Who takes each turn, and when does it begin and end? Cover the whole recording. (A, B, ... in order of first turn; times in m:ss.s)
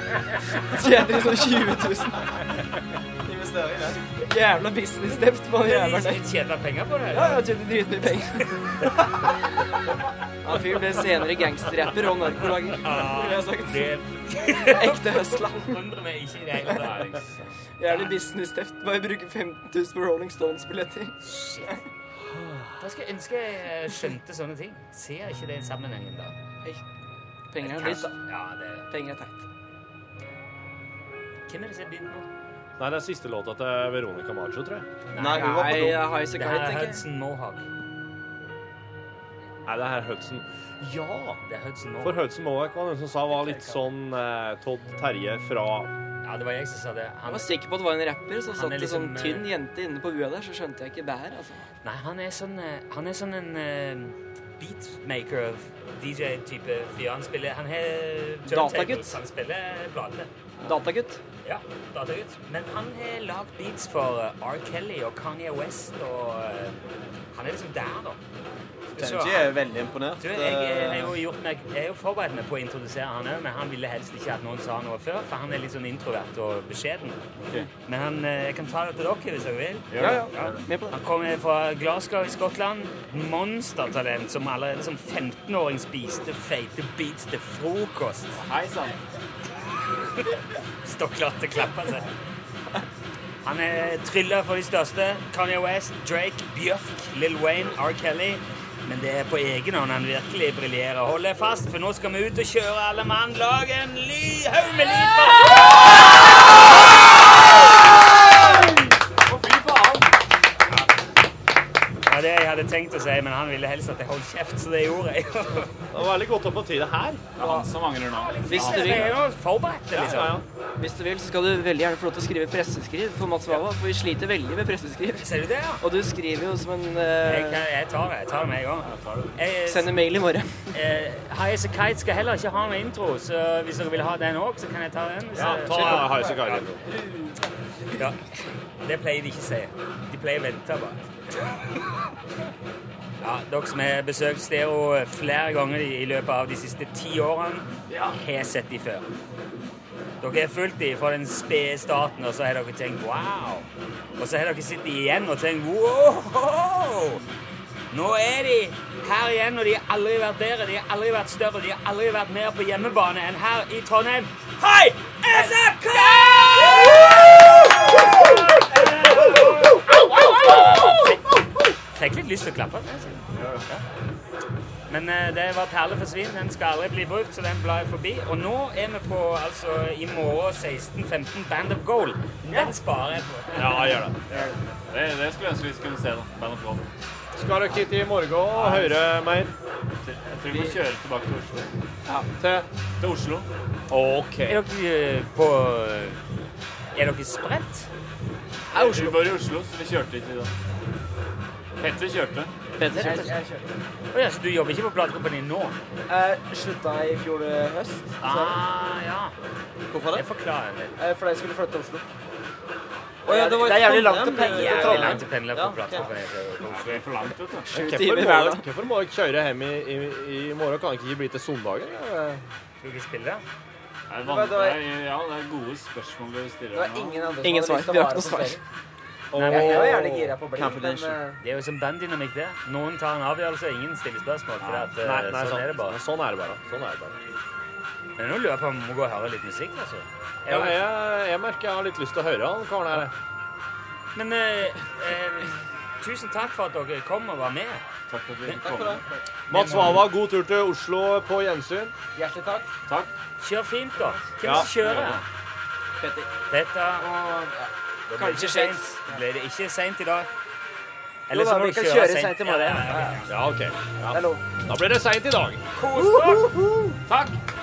0:00.6-0:02.3 A
0:03.2-0:04.0 B
0:04.2-0:06.2 A
0:05.6-0:07.4 C
0:07.1-0:08.9 A
0:10.4-0:13.9 A
0:12.7-0:17.3 C
0:14.5-0:15.8 A
0:16.8-0:17.2 D
0:17.8-0:21.8 A
0:17.8-0:18.1 C
0:21.2-0:21.8 C
0:22.3-0:22.7 D
0:22.8-0:26.3 C
0:27.5-0:28.2 A
0:27.6-0:28.9 C
0:28.9-0:29.4 A
0:31.5-0:32.2 C
0:32.8-0:34.8 D
0:35.1-0:35.6 C
0:35.2-0:36.1 B
0:35.2-0:37.0 A
0:36.3-0:37.6 C
0:39.6-0:41.4 D
0:41.5-0:42.3 C
0:42.0-0:45.9 D
0:43.3-0:43.8 C
0:46.2-0:47.5 C
0:47.2-0:51.7 A
0:48.5-0:49.5 C
0:51.8-1:00.3 C
0:58.4-0:59.2 A
1:00.6-1:01.2 A
1:01.4-1:08.2 C
1:08.9-1:09.5 C
1:09.0-1:11.2 B
1:10.2-1:17.2 C
1:17.4-1:17.7 E
1:17.8-1:28.4 C
1:19.9-1:20.6 E
1:20.0-1:21.0 A
1:28.3-1:29.0 E
1:30.8-1:32.1 C
1:33.4-1:45.5 C
1:49.2-1:50.1 E
1:52.1-1:55.7 C
1:55.9-1:57.2 D
1:57.4-1:59.1 E
1:57.4-1:57.7 A
1:58.1-2:00.4 C
1:58.5-1:59.1 A
1:59.9-2:00.4 D
2:00.8-2:05.3 A
2:05.2-2:05.8 C
2:05.8-2:07.6 A
2:07.2-2:09.9 C
2:08.8-2:09.3 E
2:09.6-2:10.7 A
2:10.7-2:16.6 C
2:15.3-2:16.8 D
2:17.0-2:17.2 A
2:18.0-2:18.2 C
2:18.8-2:21.1 C
2:23.2-2:29.0 C
2:30.2-2:33.7 C
2:34.2-2:37.2 C
2:37.9-2:47.0 C
2:48.8-2:49.8 C
2:50.4-2:51.2 C
2:51.9-2:53.8 C
2:53.3-2:53.6 E
2:54.9-3:04.0 C
3:03.6-3:04.2 D
3:04.3-3:06.8 E
3:07.3-3:09.5 D
3:08.5-3:09.0 E
3:10.0-3:11.7 E
3:12.4-3:12.7 D
3:13.0-3:13.5 E
3:13.9-3:14.6 D
3:14.5-3:16.2 C
3:16.9-3:17.9 C
3:18.7-3:20.5 E
3:21.8-3:22.5 E
3:22.8-3:23.3 C
3:22.8-3:23.3 A
3:22.9-3:23.7 F
3:24.1-3:25.8 C
3:26.1-3:28.6 F
3:28.2-3:29.3 C
3:29.9-3:30.2 B
3:30.1-3:31.0 C
3:31.0-3:32.1 F
3:33.2-3:35.3 F
3:33.2-3:36.1 B
3:34.3-3:37.1 C
3:36.7-3:37.7 E
3:37.7-3:38.7 A
3:37.7-3:42.4 D
3:42.8-3:43.4 C
3:44.1-3:47.3 E
3:44.2-3:44.9 F
3:46.7-3:48.6 F
3:47.4-3:48.6 A
3:49.3-3:50.4 D
3:49.3-3:50.1 C
3:49.4-3:51.4 F
3:50.6-3:51.2 B
3:51.4-3:56.0 C
3:54.6-3:54.9 E
3:55.0-3:57.2 D
3:58.2-4:00.9 C
4:00.5-4:03.1 D
4:04.1-4:07.8 C
4:08.1-4:09.0 E
4:08.6-4:09.0 F
4:09.5-4:11.9 D
4:09.5-4:10.0 C
4:12.1-4:12.7 F
4:13.4-4:15.2 C
4:14.4-4:14.7 D
4:14.5-4:15.2 E
4:16.5-4:17.1 C
4:17.0-4:17.7 F
4:18.1-4:20.3 C
4:18.1-4:18.9 A
4:21.3-4:23.3 C
4:21.3-4:23.3 F
4:23.3-4:25.6 D
4:24.1-4:24.4 F
4:25.8-4:26.5 C
4:25.9-4:27.0 F
4:27.1-4:27.4 E